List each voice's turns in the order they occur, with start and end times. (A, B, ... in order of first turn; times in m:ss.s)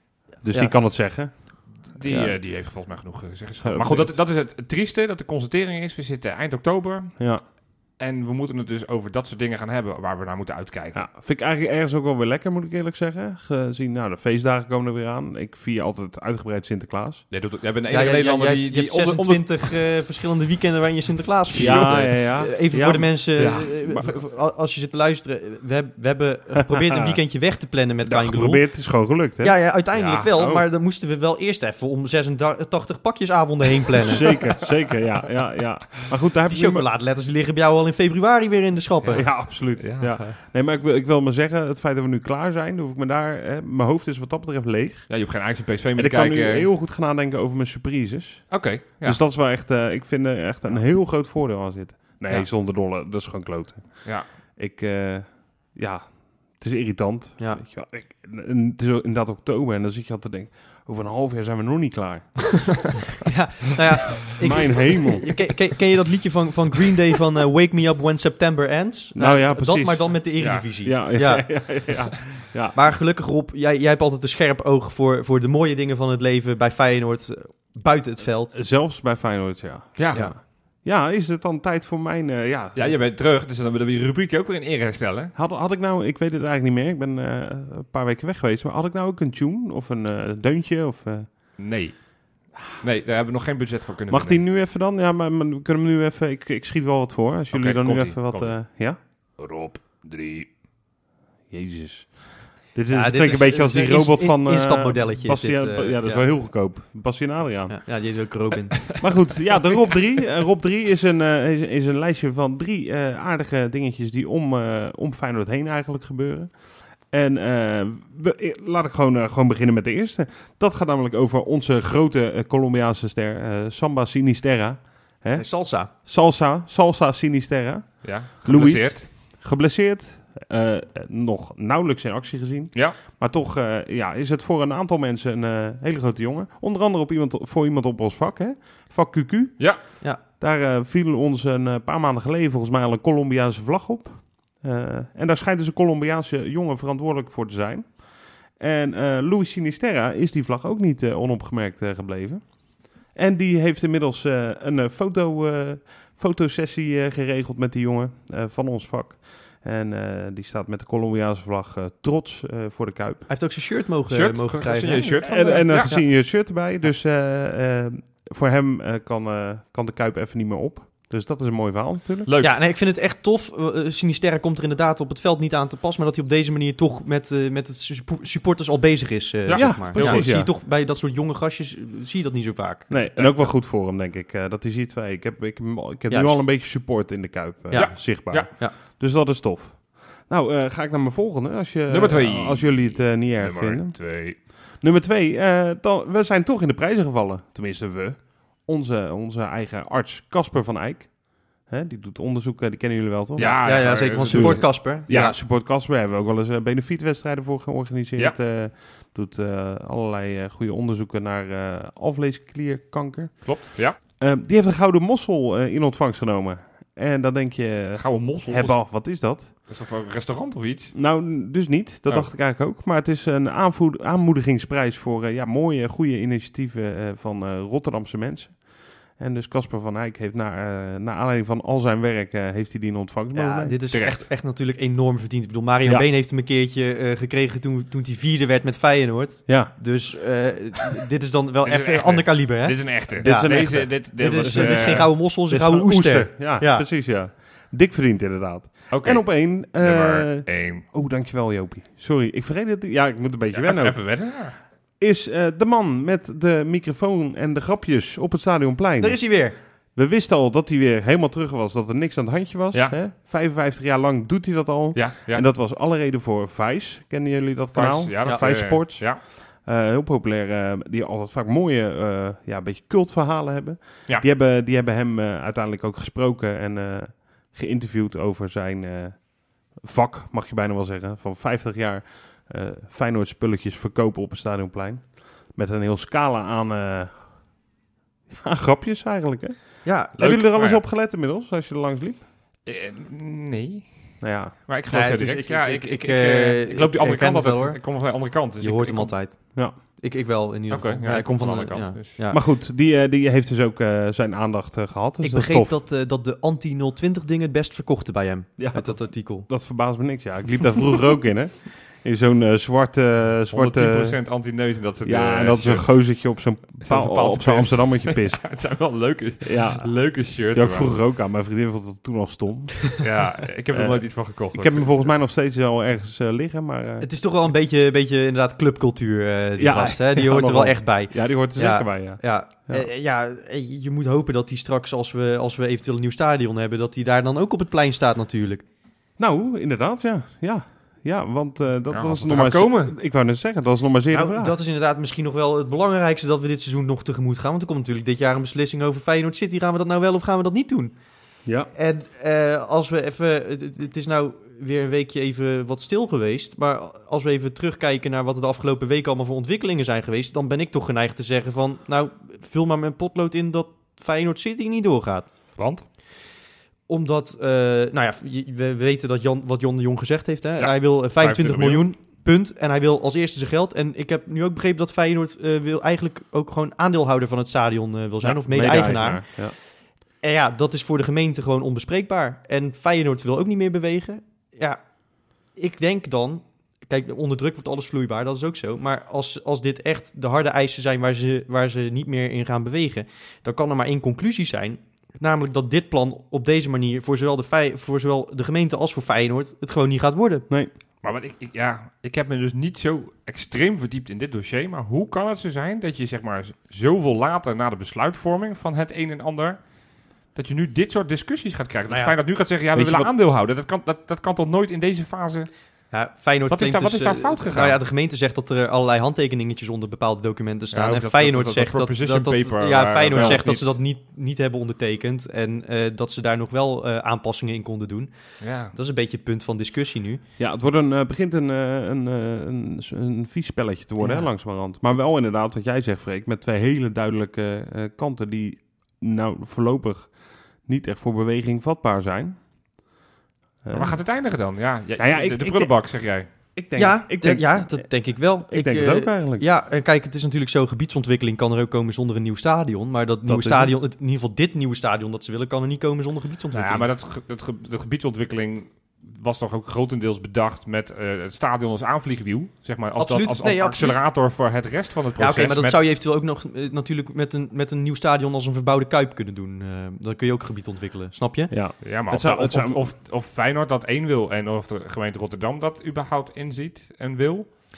0:00.4-0:01.7 A
0:00.5-0:01.4 B
0:01.8-0:11.0 C
0:02.0-0:02.4 B
0:03.6-0:04.2 A
0:07.2-0:07.4 A
0:10.9-0:17.3 A
0:17.3-0:19.9 C
0:17.9-0:34.6 B
0:21.5-0:24.1 A
0:21.6-0:22.1 C
0:23.4-0:23.8 C
0:26.8-0:27.1 A
0:28.0-0:30.7 A
0:29.9-0:30.3 C
0:34.1-0:36.9 A
0:36.5-0:39.4 B
0:39.0-0:40.3 C
0:39.1-0:45.4 A
0:45.1-0:46.7 C
0:46.0-1:02.9 A
0:48.5-0:49.2 C
0:57.4-0:57.6 B
1:03.2-1:18.6 B
1:04.4-1:05.3 A
1:09.2-1:12.8 A
1:10.4-1:10.7 C
1:18.5-1:23.0 A
1:20.0-1:20.3 C
1:20.1-1:20.4 B
1:22.7-1:25.3 C
1:25.4-1:31.6 A
1:31.6-1:34.4 C
1:34.1-1:39.0 A
1:37.5-1:40.6 C
1:41.5-1:48.3 A
1:42.9-1:46.4 B
1:47.7-1:49.2 B
1:49.0-2:43.3 A
2:05.4-2:05.9 B
2:08.0-2:09.1 C
2:43.3-2:46.5 B
2:44.1-2:45.9 C
2:45.2-2:52.3 A
2:52.3-2:52.6 C
2:52.4-3:02.9 B
2:59.5-3:00.4 C
2:59.5-3:00.5 A
3:02.9-3:39.7 A
3:03.2-3:03.5 C
3:06.1-3:06.9 B
3:07.7-3:08.8 B
3:07.7-3:08.5 C
3:11.9-3:14.4 C
3:23.4-3:25.4 C
3:23.4-3:25.4 B
3:33.4-3:34.0 C
3:38.0-3:41.0 C
3:40.9-3:53.8 A
3:42.1-3:42.3 C
3:53.3-4:06.9 B
3:53.9-3:54.3 C
3:59.5-3:59.7 A
4:01.6-4:05.2 C
4:03.2-4:47.6 A
4:08.9-4:10.8 C
4:13.5-4:14.6 C
4:19.0-4:19.6 B
4:22.7-4:23.0 C
4:24.9-4:25.4 C
4:27.7-4:29.2 C
4:48.3-4:52.3 A
4:49.8-4:50.2 B
4:50.2-4:50.8 C
4:52.6-4:59.2 C
4:54.2-4:54.6 A
4:54.9-5:02.4 B
5:00.7-5:02.2 C
5:02.3-5:05.8 A
5:05.2-5:09.5 B
5:08.6-5:14.2 A
5:13.5-5:21.0 C
5:15.0-5:18.8 A
5:19.4-5:23.0 A
5:23.0-5:25.1 C
5:23.7-5:27.1 A
5:27.0-5:38.6 B
5:29.6-5:32.9 A
5:39.2-5:44.6 A
5:41.9-5:42.9 C
5:44.1-5:51.0 B
5:51.4-5:51.7 A
5:51.7-6:05.6 B
6:05.6-6:05.8 C
6:06.9-6:40.5 B
6:10.6-6:11.9 C
6:18.2-6:19.6 A
6:41.0-6:55.9 C
6:51.9-6:52.2 B
6:52.7-6:53.1 A
6:55.9-7:10.2 B
6:56.5-6:57.8 C
7:00.7-7:03.6 C
7:03.2-7:03.6 A
7:08.4-7:08.7 C
7:10.4-7:22.4 A
7:14.0-7:14.3 B
7:23.6-7:29.5 A
7:23.7-7:26.3 C
7:26.8-7:36.9 B
7:33.3-7:33.8 A
7:36.5-7:45.8 C
7:43.0-7:44.0 B
7:45.2-7:51.6 B
7:51.5-7:52.9 A
7:51.8-7:57.6 C